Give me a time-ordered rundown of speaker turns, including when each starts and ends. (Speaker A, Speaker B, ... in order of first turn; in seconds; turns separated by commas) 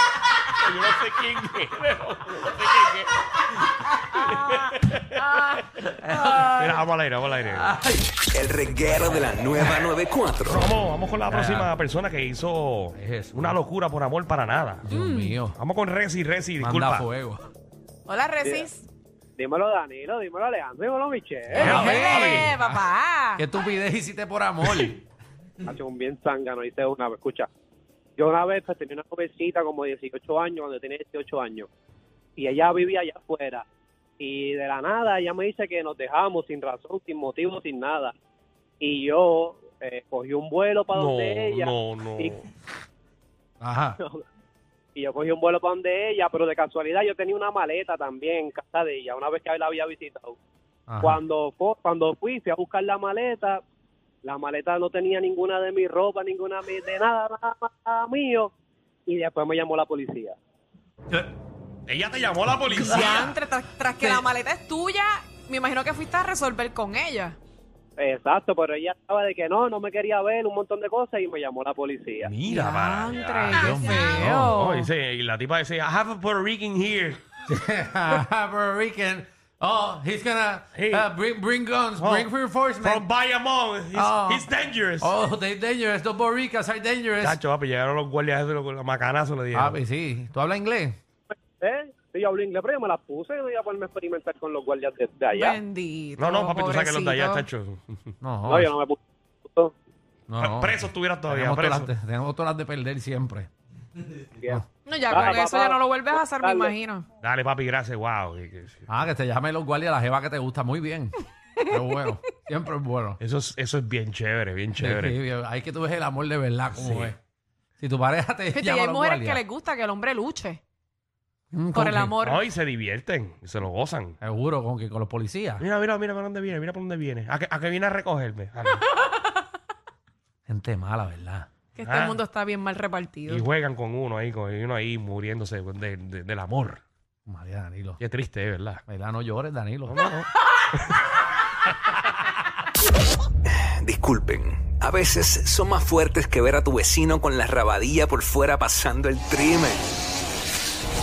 Speaker A: 0.5-3.4, Speaker A: 4.1-5.6, Speaker B: 5.7-6.8, Speaker A: 6.2-7.8, Speaker B: 7.6-8.2, Speaker C: 8.3-10.7, Speaker A: 10.4-14.9, Speaker B: 11.3-11.7, Speaker B: 12.9-13.6, Speaker B: 14.8-15.6, Speaker D: 14.9-15.4, Speaker A: 15.5-17.1, Speaker B: 16.6-17.4, Speaker D: 18.1-18.9, Speaker E: 18.4-18.7, Speaker E: 19.4-21.8, Speaker B: 21.5-22.8, Speaker A: 21.5-22.5, Speaker D: 21.7-23.4, Speaker B: 23.4-25.0, Speaker E: 25.6-27.5, Speaker E: 28.2-31.7, Speaker E: 32.4-33.6, Speaker E: 34.2-38.1, Speaker E: 38.8-42.4, Speaker A: 40.9-42.4, Speaker B: 43.6-44.0, Speaker E: 44.9-50.4, Speaker B: 50.9-51.2, Speaker E: 51.0-53.6, Speaker E: 54.2-58.5, Speaker E: 59.1-60.4, Speaker A: 61.9-63.4, Speaker D: 62.7-67.4, Speaker B: 62.8-63.0, Speaker B: 64.0-64.2, Speaker E: 68.0-72.3, Speaker A: 72.2-77.2, Speaker D: 72.5-74.9, Speaker B: 73.5-74.5, Speaker B: 77.5-83.0, Speaker A: 80.7-81.1, Speaker A: 82.0-82.3, Speaker A: 82.8-85.1, Speaker B: 83.9-84.5, Speaker B: 85.0-87.4, Speaker A: 87.2-89.8, Speaker B: 89.5-91.0, Speaker E: 91.6-95.6, Speaker D: 95.3-97.5, Speaker A: 96.2-98.1, Speaker B: 98.2-98.7, Speaker E: 98.5-99.7, Speaker B: 100.3-103.5, Speaker A: 100.4-101.9, Speaker E: 104.3-106.7, Speaker D: 104.8-107.1, Speaker A: 107.2-108.9, Speaker B: 108.9-113.2, Speaker D: 111.7-111.9, Speaker A: 113.2-115.2, Speaker B: 114.8-117.2, Speaker A: 116.8-117.1, Speaker B: 117.8-119.4, Speaker D: 118.5-120.6, Speaker B: 121.5-122.2, Speaker D: 121.7-122.5, Speaker A: 122.2-124.2, Speaker B: 124.2-125.6, Speaker A: 125.6-128.8, Speaker D: 128.8-129.2, Speaker B: 130.5-131.5, Speaker D: 131.8-133.4, Speaker A: 131.8-132.2, Speaker A: 133.3-136.8, Speaker B: 137.3-138.0, Speaker A: 138.0-138.8, Speaker B: 138.9-140.0, Speaker A: 139.9-140.3, Speaker C: 143.5-149.9